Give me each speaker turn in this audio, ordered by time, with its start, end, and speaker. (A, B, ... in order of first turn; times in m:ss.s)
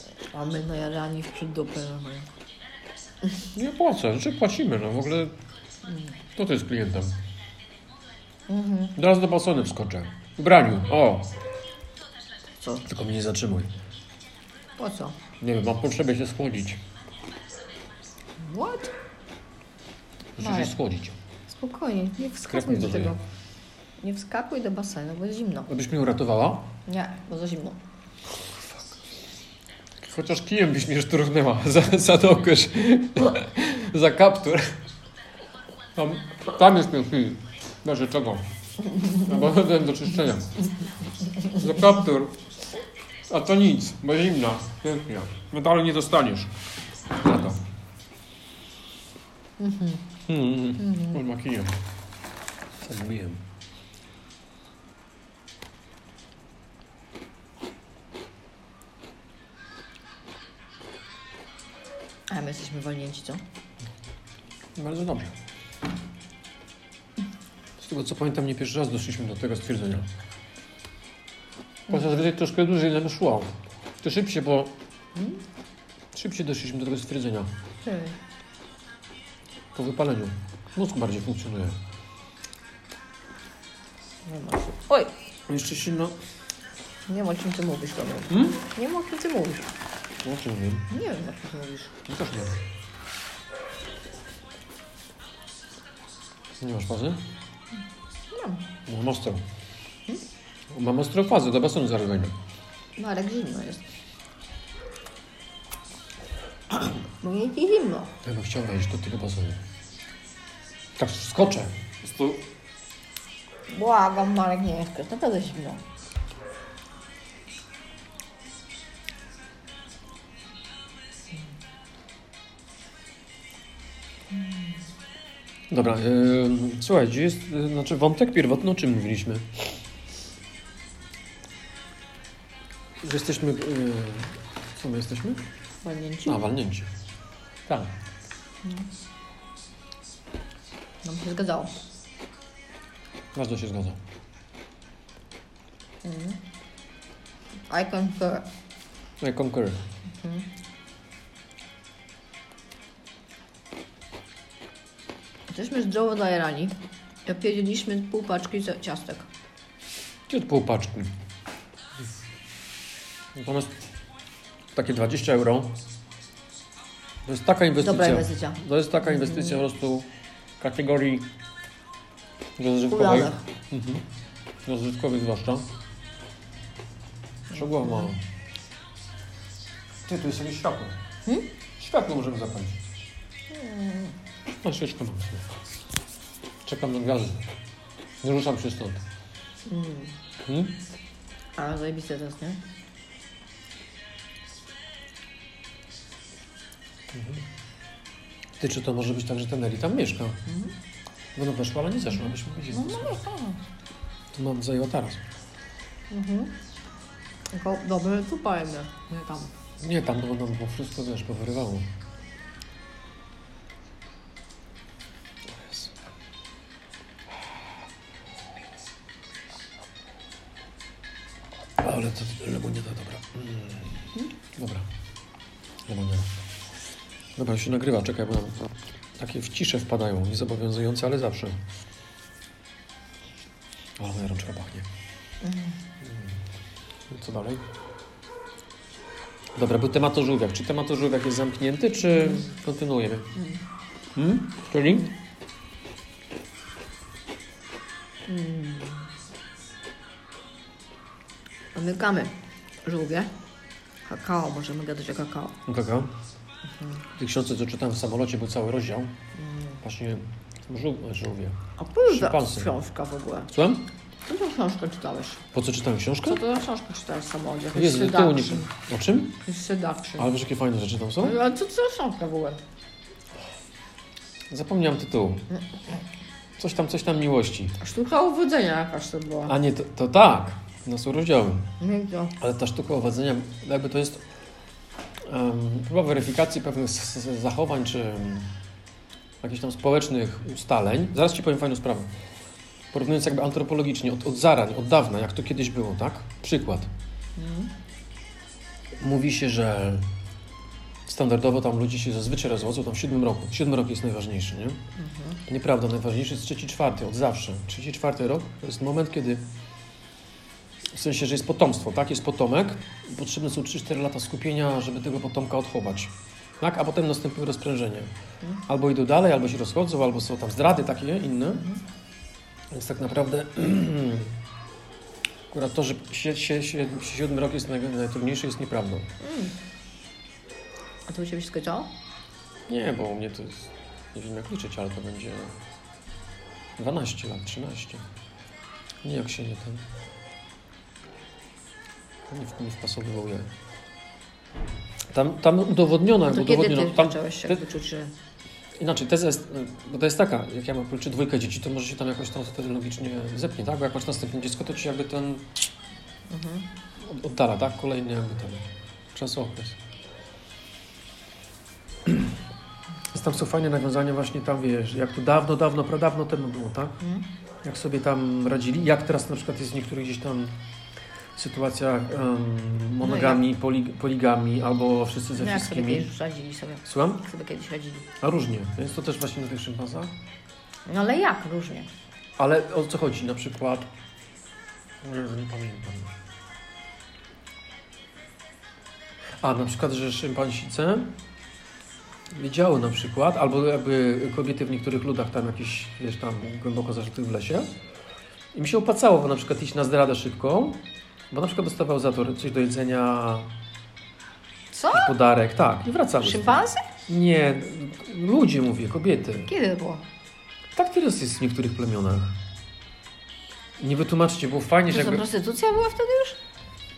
0:00.3-0:02.3 A
0:03.5-0:05.3 B
0:05.8-0:06.2 A
0:06.4-0:07.2 B
0:08.5-0:09.0 A
0:09.0-0:11.3 B
0:12.8-0:13.7 B
0:14.8-0:15.2 A
0:15.4-0:16.8 B
0:18.4-0:18.9 A
0:20.4-0:21.2 B
0:20.4-0:20.7 A
0:21.5-0:23.2 A
0:22.5-0:23.2 B
0:24.0-0:25.7 A
0:25.7-0:26.7 B
0:26.9-0:27.8 A
0:30.0-0:34.6 B
0:36.0-0:38.5 B
0:39.1-0:40.7 B
0:41.4-0:42.3 B
0:43.3-0:46.5 B
0:47.2-0:47.6 B
0:49.6-0:50.1 A
0:50.3-0:51.8 B
0:50.8-0:51.2 A
0:52.8-0:53.4 B
1:02.3-1:03.4 A
1:04.8-1:05.3 B
1:07.8-1:10.1 B
1:11.9-1:14.8 B
1:16.1-1:17.5 B
1:17.8-1:18.2 A
1:19.7-1:21.8 B
1:24.2-1:25.1 A
1:25.5-1:26.2 B
1:27.1-1:29.7 A
1:28.3-1:28.6 B
1:30.2-1:30.9 B
1:30.9-1:31.9 A
1:32.0-1:32.6 B
1:36.6-1:37.2 B
1:38.3-1:38.6 A
1:38.9-1:39.4 B
1:40.7-1:42.3 B
1:43.0-1:43.8 A
1:47.2-1:48.1 A
1:48.2-1:49.6 B
1:51.0-1:52.4 B
1:53.7-1:55.8 A
2:04.3-2:04.7 A
2:05.7-2:09.4 B
2:13.0-2:15.4 B
2:15.8-2:16.4 A
2:16.2-2:16.9 B
2:17.7-2:17.9 B
2:21.0-2:21.7 A
2:23.3-2:24.0 B
2:26.0-2:26.4 A
2:27.7-2:28.5 A
2:29.2-2:29.8 B
2:30.2-2:30.5 A
2:35.5-2:39.3 A
2:40.3-2:41.1 B
2:43.3-2:43.7 B
2:44.7-2:45.8 B
2:47.2-2:50.1 B
2:47.8-2:49.6 A
2:50.6-2:51.3 B
2:52.6-2:54.0 B
2:52.9-2:53.4 A
2:54.6-2:55.7 B
2:57.5-2:58.2 B
2:57.5-2:58.1 A
3:00.0-3:00.9 B
3:01.8-3:02.8 B
3:03.5-3:04.2 A
3:04.6-3:05.4 B
3:06.6-3:07.4 B
3:08.2-3:09.0 B
3:09.7-3:10.2 A
3:10.4-3:10.8 B
3:11.6-3:12.6 A
3:17.1-3:17.5 B
3:18.6-3:20.4 B
3:20.5-3:20.7 A
3:21.4-3:23.2 B
3:22.1-3:23.6 A
3:24.3-3:25.2 B
3:26.1-3:26.5 A
3:27.5-3:29.5 A
3:29.8-3:31.9 B
3:35.6-3:35.8 B
3:41.8-3:44.0 B
3:44.5-3:44.9 B
3:45.9-3:46.3 B
3:47.4-3:48.6 B
3:49.2-3:51.6 B
3:54.0-3:54.9 B
3:55.4-3:55.8 A
3:56.0-3:56.4 B
3:57.1-3:57.6 B
3:59.6-4:03.3 B
4:02.1-4:02.4 A
4:03.4-4:03.6 A
4:04.2-4:05.1 B
4:08.3-4:09.1 A
4:11.7-4:12.3 A
4:12.8-4:13.3 A
4:14.0-4:15.6 A
4:15.6-4:16.1 B
4:17.2-4:19.1 B
4:19.4-4:19.8 A
4:19.8-4:22.7 B
4:21.8-4:23.5 A
4:23.5-4:23.9 B
4:24.3-4:25.4 A
4:25.5-4:26.4 B
4:26.2-4:28.7 A
4:27.7-4:29.4 B
4:29.4-4:30.3 A
4:30.2-4:31.4 B
4:31.2-4:32.6 A
4:34.5-4:35.5 B
4:35.5-4:35.8 A
4:36.6-4:37.8 B
4:37.8-4:39.5 A
4:39.5-4:41.7 B
4:41.8-4:42.3 A
4:42.4-4:44.2 B
4:45.2-4:48.5 B
4:49.4-4:52.1 B
4:52.9-4:56.9 B
4:57.4-4:57.7 A
4:59.0-5:00.1 B
5:01.1-5:04.8 B
5:05.0-5:05.4 A
5:05.5-5:09.4 B
5:10.9-5:18.1 B
5:18.7-5:21.6 B
5:22.7-5:24.4 B
5:25.5-5:29.1 B
5:29.2-5:29.5 A
5:31.1-5:31.9 A
5:32.7-5:35.6 B
5:36.8-5:38.0 B
5:39.0-5:39.8 B
5:42.3-5:43.5 B
5:45.1-5:47.6 B
5:46.3-5:48.1 A
5:48.8-5:55.5 B
5:56.3-5:56.7 A
5:57.0-5:59.8 B
6:02.0-6:02.3 B
6:03.1-6:07.0 B
6:07.0-6:07.3 A
6:07.6-6:10.6 B
6:11.3-6:16.1 B
6:13.0-6:13.4 A
6:15.3-6:18.1 A
6:16.8-6:17.2 B
6:18.2-6:20.1 B
6:20.9-6:21.9 A
6:22.4-6:23.9 B
6:25.0-6:26.1 B
6:29.4-6:31.1 B
6:32.3-6:37.7 B
6:38.5-6:43.5 B
6:44.7-6:45.1 A
6:44.9-6:49.5 B
6:46.2-6:46.8 A
6:49.4-6:50.0 A
6:50.8-6:52.4 B
6:53.8-6:55.2 B
6:54.9-6:56.4 A